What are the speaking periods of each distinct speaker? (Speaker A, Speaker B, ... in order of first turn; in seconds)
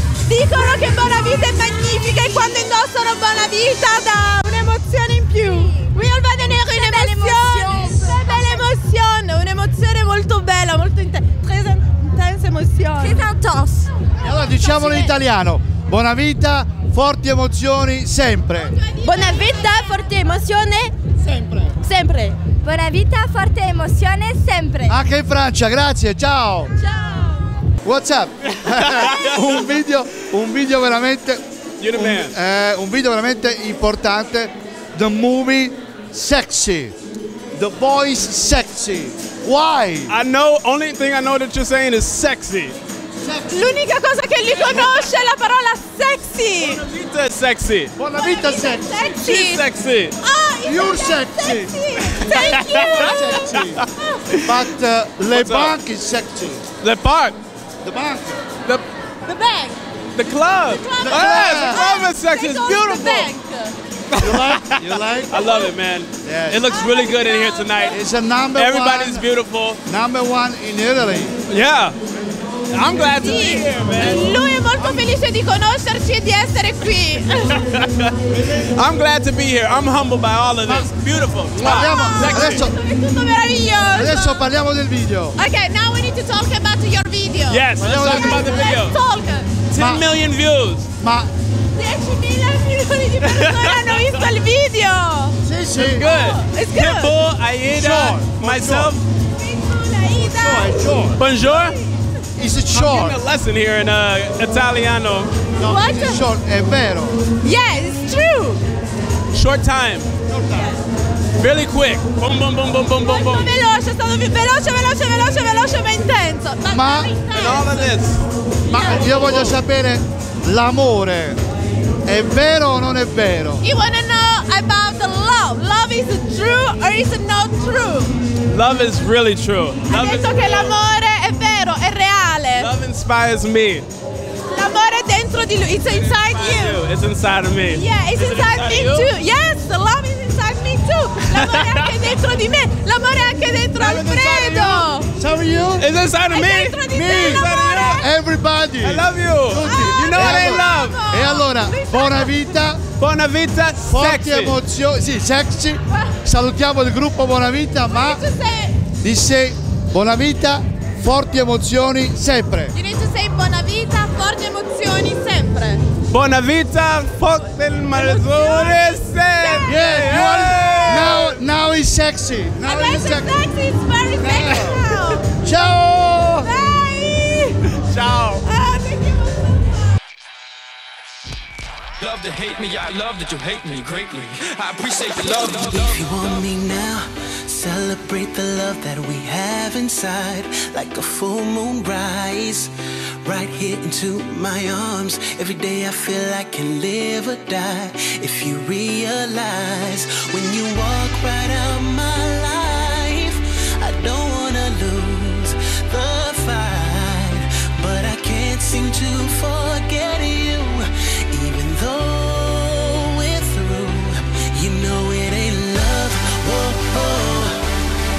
Speaker A: 0.2-13.3, 14.2-15.2, 18.8-20.2, 26.9-27.3, 43.5-46.8, 48.1-49.6, 50.2-54.2, 59.2-59.8, 60.6-63.8, 66.6-67.9, 72.9-77.6, 81.6-84.5, 85.4-89.5, 91.8-95.3, 96.0-97.2, 99.4-100.8, 101.4-101.8, 105.6-106.2, 107.4-108.6, 113.0-118.0, 118.7-119.3, 123.6-128.2, 129.8-132.7, 134.5-136.8, 137.7-145.1, 146.2-148.0, 149.6-152.5, 157.8-158.8, 162.7-165.8, 167.9-171.0, 172.6-175.2, 176.4-177.6, 178.4-179.5
Speaker B: 6.6-8.6, 13.0-13.8, 22.6-24.9
Speaker C: 14.2-18.8, 21.2-21.8, 24.9-26.7, 27.8-36.9, 37.5-40.1, 43.2-43.8, 48.0-49.4, 50.6-53.8, 54.5-56.6, 57.8-58.4, 61.0-62.0, 64.2-65.7, 66.2-66.8, 67.9-69.2, 69.9-71.3, 74.8-75.1, 81.5-82.8, 83.9-85.4, 87.8-88.8, 89.8-90.0, 91.0-91.3, 95.4-96.1, 97.7-98.9, 100.1-101.2, 102.3-103.2, 105.6-107.2, 110.3-110.7, 116.7-117.3, 118.7-121.4, 122.0-123.7, 145.2-145.8, 147.1-152.8, 153.8-158.2, 159.0-162.8, 169.6-173.4, 174.1-176.5
Speaker D: 28.5-29.6, 31.8-32.3, 40.1-42.8, 46.6-48.0, 49.3-50.1, 52.1-54.7, 55.3-55.8, 56.8-57.4, 60.1-63.3, 64.1-68.0, 68.5-69.8, 71.5-72.0, 72.7-74.3, 77.5-82.7, 87.5-89.0, 89.7-90.9, 93.2-94.3, 95.7-99.0, 101.2-101.8, 102.7-105.3, 109.3-110.1, 111.4-113.5, 117.3-118.2, 119.2-119.6, 128.5-130.8, 132.5-133.9, 135.8-139.2, 141.3-142.2, 143.8-144.9, 145.8-148.1, 148.8-151.1, 153.0-154.6, 166.1-171.3, 177.8-178.4
Speaker E: 182.0-186.1
Speaker F: 185.2-192.7, 193.2-217.7